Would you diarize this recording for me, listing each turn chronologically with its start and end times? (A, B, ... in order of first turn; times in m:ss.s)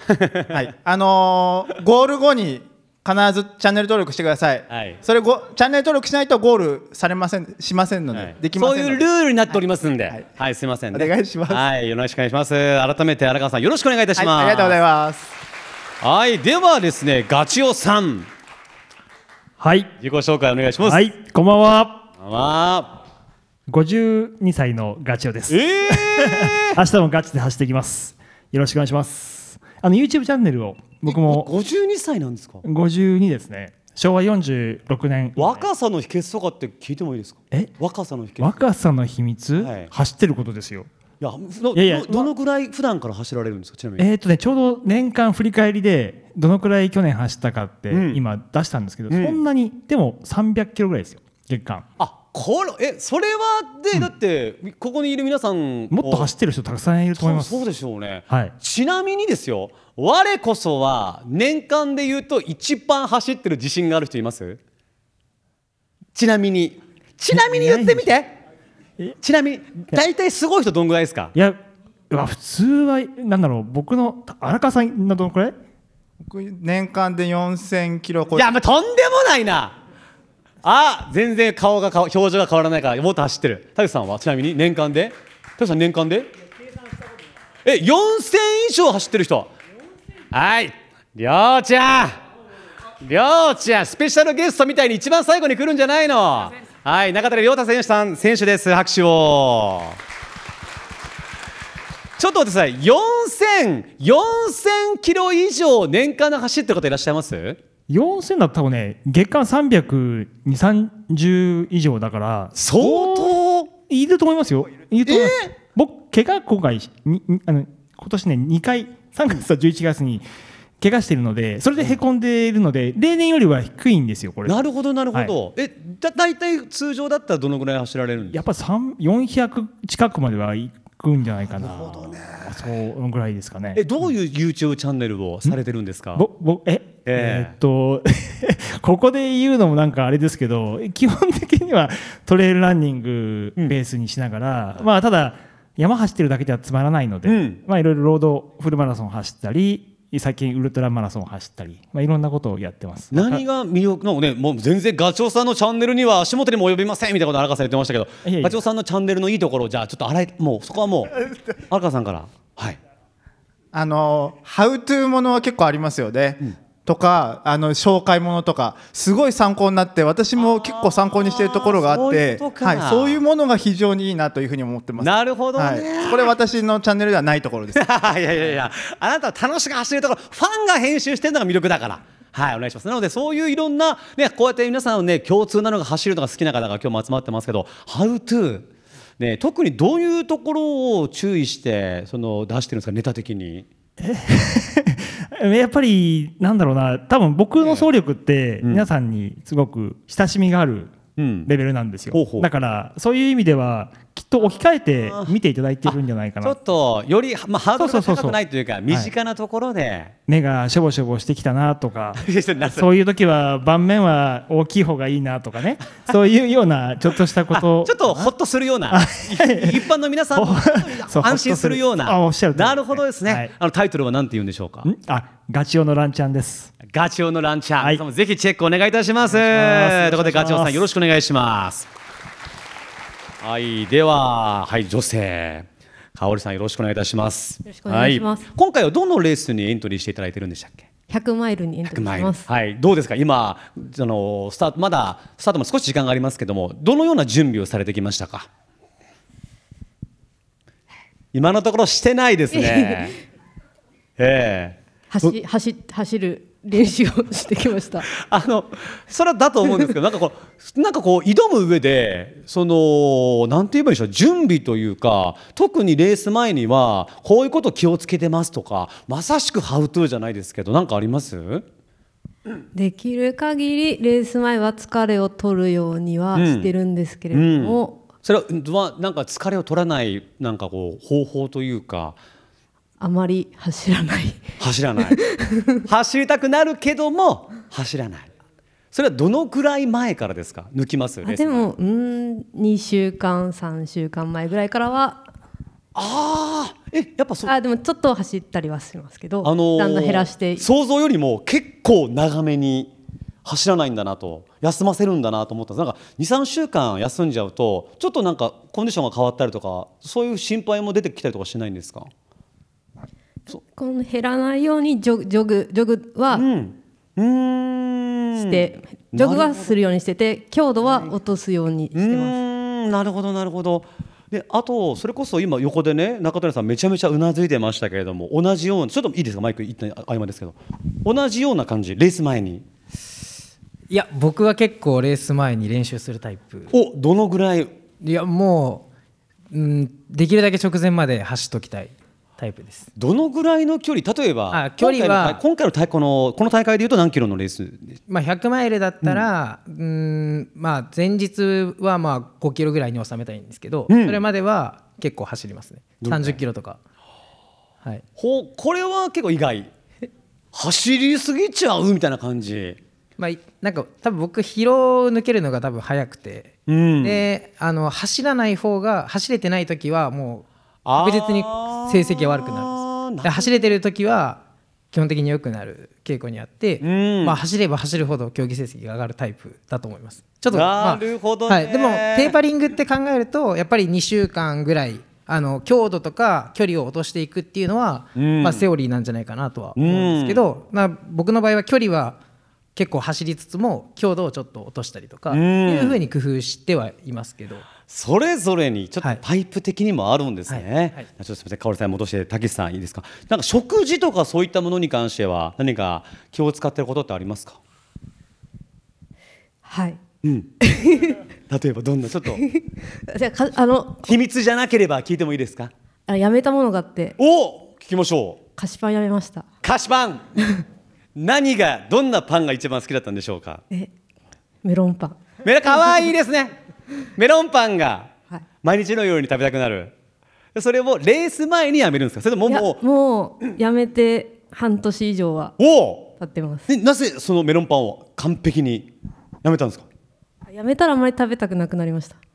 0:00.5-0:09.6 A
0:04.7-0:05.0 B
0:08.1-0:14.8 B
0:10.9-0:11.6 A
0:14.2-0:15.3 A
0:16.0-0:18.3 B
0:19.6-0:19.9 C
0:20.0-0:21.1 B
0:20.8-0:22.0 C
0:22.2-0:23.0 B
0:23.7-0:31.5 C
0:25.5-0:26.8 B
0:31.0-0:32.6 B
0:32.6-0:35.7 C
0:35.4-0:38.6 B
0:38.4-0:40.9 C
0:39.6-0:39.9 B
0:41.2-0:44.1 B
0:41.7-0:42.3 C
0:44.0-0:51.9 C
0:47.9-0:48.2 B
0:49.1-0:49.4 B
0:52.0-0:56.3 B
0:55.9-0:57.6 C
0:57.1-1:04.6 B
0:58.3-0:58.5 C
1:06.1-1:08.3 B
1:07.3-1:08.1 C
1:09.2-1:11.3 B
1:12.1-1:15.5 C
1:16.3-1:18.4 A
1:18.3-1:19.8 B
1:20.6-1:26.3 B
1:27.6-1:29.5 B
1:30.3-1:32.2 B
1:33.0-1:40.0 B
1:42.2-1:47.6 B
1:47.9-2:00.2 C
1:52.5-1:53.7 B
1:55.0-1:55.5 B
2:00.8-2:05.3 C
2:04.4-2:08.4 B
2:08.3-2:14.0 C
2:11.6-2:12.6 B
2:13.7-2:16.2 B
2:16.2-2:33.4 C
2:17.0-2:17.6 B
2:27.2-2:27.6 B
2:33.1-2:41.2 B
2:38.2-2:38.6 C
2:41.7-2:42.8 B
2:43.7-2:57.8 A
2:50.4-2:53.2 B
2:55.0-2:56.3 B
2:57.7-3:08.7 B
3:09.2-3:13.7 B
3:14.0-3:26.6 C
3:17.6-3:17.9 B
3:18.6-3:18.9 B
3:21.2-3:21.5 B
3:22.1-3:22.5 B
3:24.4-3:30.1 B
3:27.8-3:29.1 C
3:30.3-3:38.3 C
3:32.2-3:32.9 B
3:37.5-3:44.9 B
3:38.9-3:43.5 C
3:44.8-3:46.8 C
3:46.8-3:51.9 B
3:49.3-3:50.9 C
3:53.4-4:00.9 B
3:57.6-3:58.4 D
4:01.1-4:02.4 D
4:01.9-4:08.5 B
4:11.3-4:13.1 B
4:12.5-4:13.1 D
4:14.2-4:15.3 B
4:15.1-4:18.0 D
4:18.2-4:31.6 B
4:32.7-4:38.0 D
4:36.3-4:36.7 B
4:37.3-4:42.2 B
4:43.0-4:45.8 D
4:44.6-4:45.2 B
4:45.8-4:48.3 B
4:48.9-4:51.7 B
4:51.2-4:55.3 D
4:55.9-4:57.5 B
4:57.4-5:00.7 D
4:59.4-5:02.9 B
5:03.4-5:12.1 B
5:13.5-5:16.4 D
5:16.3-5:19.7 B
5:18.4-5:22.4 D
5:20.8-5:21.1 B
5:21.9-5:32.6 B
5:33.9-5:36.7 E
5:36.7-5:37.7 B
5:38.0-5:38.8 E
5:39.5-5:42.9 E
5:43.0-5:48.0 B
5:44.5-5:45.4 E
5:48.1-5:56.8 E
5:53.9-5:54.2 B
5:56.0-5:56.4 B
5:58.2-5:59.7 B
6:00.5-6:02.8 B
6:03.2-6:10.4 E
6:06.7-6:07.3 B
6:10.8-6:13.7 B
6:11.0-6:32.2 E
6:16.8-6:17.4 B
6:20.5-6:22.4 B
6:28.2-6:28.7 B
6:29.8-6:30.4 B
6:32.8-6:37.6 E
6:35.3-6:36.0 B
6:37.8-6:47.6 B
6:40.5-6:41.0 E
6:49.6-6:50.0 D
6:50.2-6:50.5 B
6:50.6-6:51.2 D
6:51.5-6:52.4 B
6:52.4-6:54.1 D
6:54.0-6:55.7 B
6:56.1-6:57.1 D
6:57.2-6:58.4 B
6:58.6-6:59.4 D
6:59.6-7:00.3 B
7:01.1-7:03.6 B
7:04.6-7:05.8 D
7:05.4-7:06.5 B
7:07.2-7:08.1 B
7:08.6-7:09.9 B
7:10.5-7:12.8 B
7:12.5-7:15.5 D
7:15.6-7:16.1 B
7:16.2-7:16.6 D
7:16.7-7:18.9 B
7:19.4-7:19.8 B
7:20.5-7:22.2 D